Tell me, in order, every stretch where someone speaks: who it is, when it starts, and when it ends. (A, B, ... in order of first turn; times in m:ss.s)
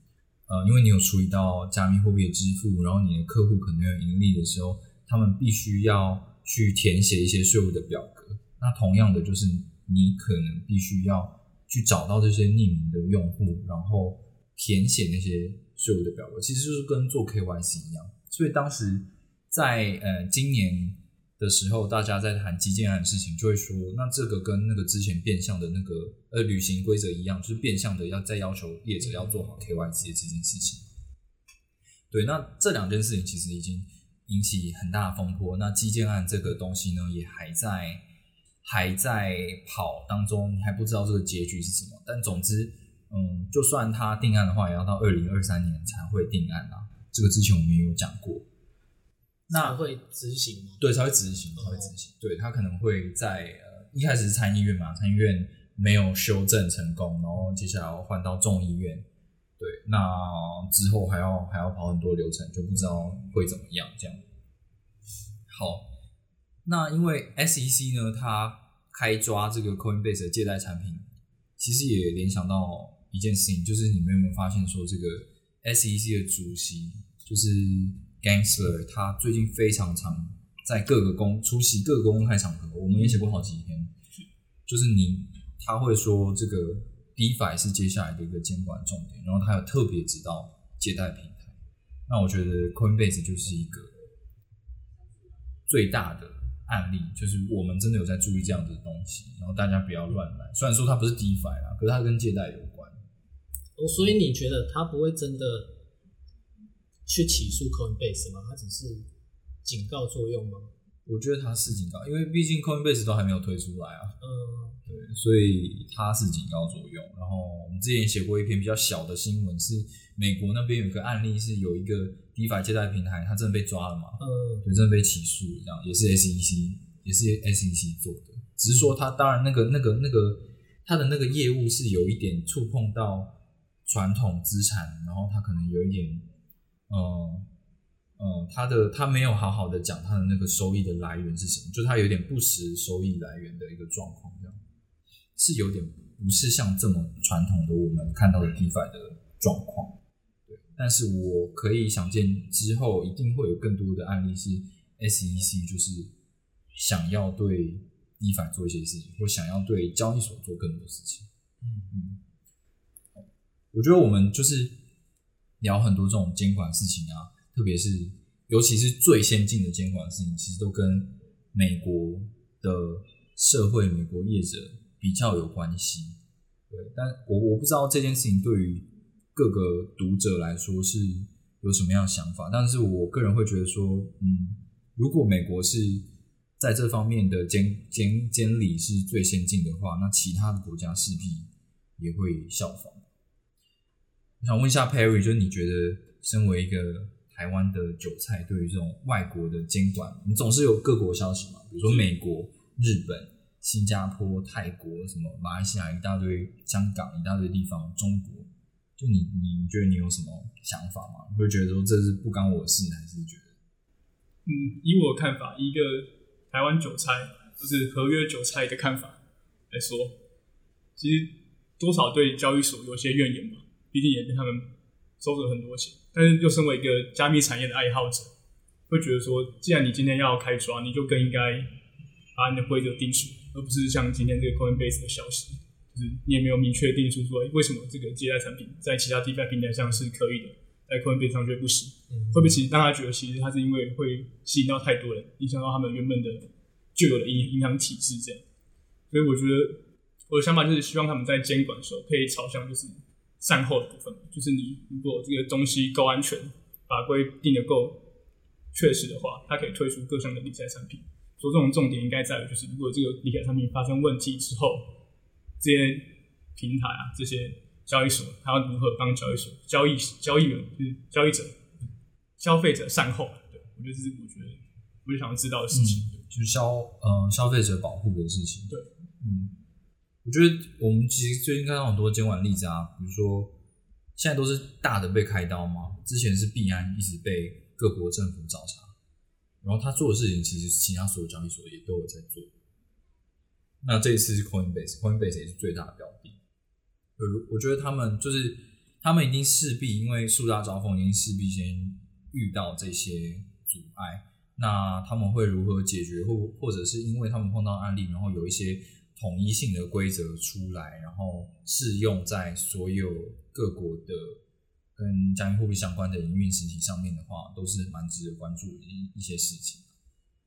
0:00.5-0:30.9 A
0:32.1-0:38.0 A
0:38.6-0:48.4 A
0:49.5-0:50.8 B
0:49.5-0:49.8 A
0:50.8-0:59.1 A
0:51.6-0:51.9 B
0:59.6-1:04.2 A
1:05.5-1:05.9 A
1:06.6-1:11.1 A
1:11.6-1:23.9 A
1:24.7-1:33.9 A
1:35.7-1:43.0 A
1:43.8-1:45.8 B
1:47.1-1:49.1 B
1:49.6-1:50.7 B
1:51.1-1:54.2 A
1:54.2-1:54.8 B
1:54.9-2:16.3 A
2:04.2-2:04.7 B
2:16.9-2:17.5 A
2:18.2-2:24.6 A
2:25.4-2:36.1 A
2:36.8-2:41.3 A
2:41.6-2:41.9 B
2:41.9-2:42.2 A
2:43.2-2:44.8 A
2:45.6-2:56.2 A
2:56.7-3:06.0 A
3:06.6-3:13.1 A
3:14.4-3:33.6 A
3:34.5-3:39.2 C
3:39.7-3:40.2 C
3:41.0-3:44.7 C
3:45.2-3:48.3 C
3:48.9-3:51.7 C
3:52.4-4:08.4 C
4:02.1-4:02.6 B
4:09.1-4:18.0 C
4:18.7-4:24.9 C
4:25.6-4:31.6 C
4:32.4-4:36.2 C
4:35.7-4:39.5 A
4:40.2-4:43.6 A
4:44.2-4:48.9 A
4:49.6-4:52.5 A
4:53.8-4:56.4 A
4:57.2-5:14.4 A
5:15.0-5:19.9 A